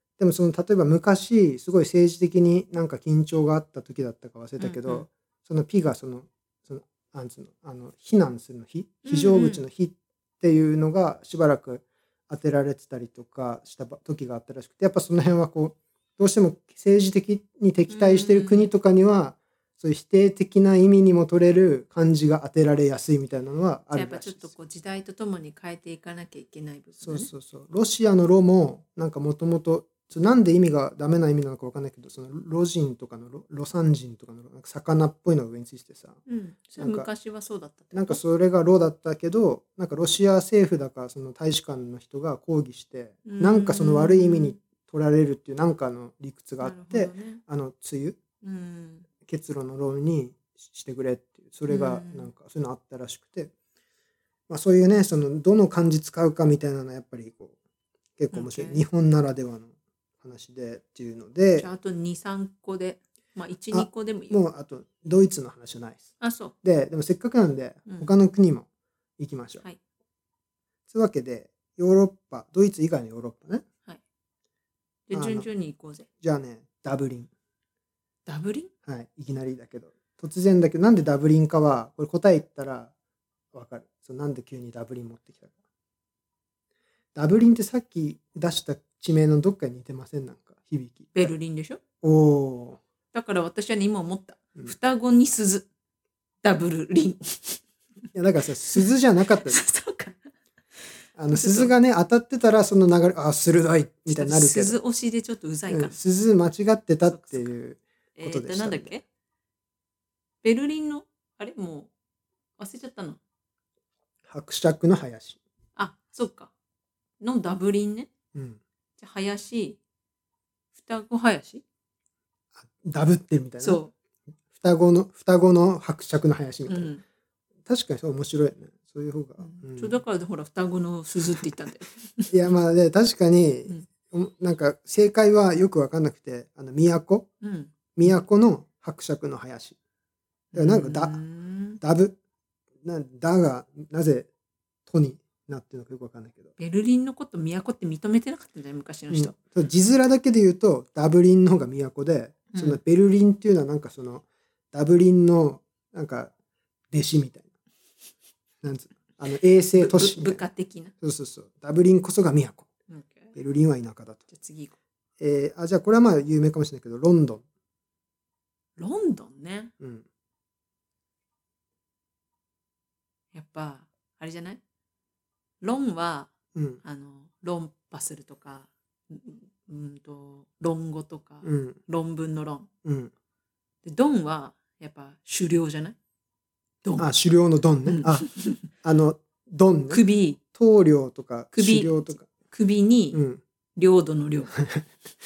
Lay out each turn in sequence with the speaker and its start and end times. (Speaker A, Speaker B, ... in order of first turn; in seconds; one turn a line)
Speaker A: 0.2-24.5
Speaker B: 4.6-5.0
Speaker B: 9.0-9.6
Speaker B: 17.9-18.7
Speaker B: 23.9-27.3
Speaker A: 27.0-36.2
Speaker B: 36.2-38.2
Speaker A: 36.8-37.1
Speaker A: 37.9-48.2
Speaker B: 43.2-44.6
Speaker B: 46.6-47.4
Speaker B: 48.4-49.1
Speaker A: 49.2-53.5
Speaker B: 51.7-52.3
Speaker A: 54.5-57.5
Speaker A: 58.2-61.7
Speaker B: 58.3-58.8
Speaker B: 61.6-64.4
Speaker A: 63.7-66.1
Speaker B: 66.2-66.5
Speaker A: 66.6-68.7
Speaker A: 69.2-69.6
Speaker A: 70.9-73.6
Speaker B: 75.1-76.1
Speaker A: 75.1-75.5
Speaker A: 76.2-77.3
Speaker B: 78.2-78.7
Speaker A: 78.8-82.9
Speaker A: 83.5-85.5
Speaker A: 87.1-91.3
Speaker B: 91.1-91.8
Speaker A: 92.0-92.8
Speaker B: 93.1-95.7
Speaker B: 96.4-97.6
Speaker A: 98.1-99.6
Speaker B: 98.7-100.2
Speaker A: 101.2-104.8
Speaker B: 101.3-101.7
Speaker B: 104.1-106.0
Speaker A: 105.7-109.0
Speaker B: 107.1-107.5
Speaker B: 108.2-109.0
Speaker B: 110.4-111.9
Speaker B: 112.6-113.2
Speaker A: 114.3-115.4
Speaker B: 115.8-116.5
Speaker B: 117.2-118.1
Speaker A: 118.3-118.6
Speaker B: 119.0-119.8
Speaker B: 120.7-121.6
Speaker A: 122.6-123.8
Speaker B: 123.6-123.9
Speaker A: 124.5-126.9
Speaker B: 126.7-127.0
Speaker A: 127.7-130.0
Speaker B: 129.4-132.4
Speaker A: 132.3-137.3
Speaker B: 137.4-137.7
Speaker A: 137.9-139.8
Speaker B: 140.5-141.8
Speaker A: 140.5-141.2
Speaker A: 141.8-142.2
Speaker A: 142.8-144.3
Speaker A: 144.9-146.5
Speaker B: 146.6-149.4
Speaker A: 149.1-156.3
Speaker B: 152.5-152.8
Speaker A: 156.9-157.5
Speaker A: 158.6-160.4
Speaker B: 159.8-160.9
Speaker A: 161.0-162.7
Speaker B: 162.9-163.3
Speaker A: 163.3-164.2
Speaker B: 164.3-164.7
Speaker A: 165.2-167.4
Speaker B: 168.8-169.7
Speaker A: 169.8-170.0
Speaker B: 173.3-174.6
Speaker B: 175.6-176.3
Speaker A: 176.5-176.8
Speaker B: 176.8-182.7
Speaker A: 181.4-181.8
Speaker A: 182.8-183.1
Speaker B: 183.8-185.9
Speaker A: 187.0-188.3
Speaker B: 187.8-188.7
Speaker A: 188.8-190.0
Speaker B: 189.9-190.4
Speaker A: 190.5-192.3
Speaker B: 191.5-193.2
Speaker A: 193.1-193.4
Speaker B: 193.8-194.5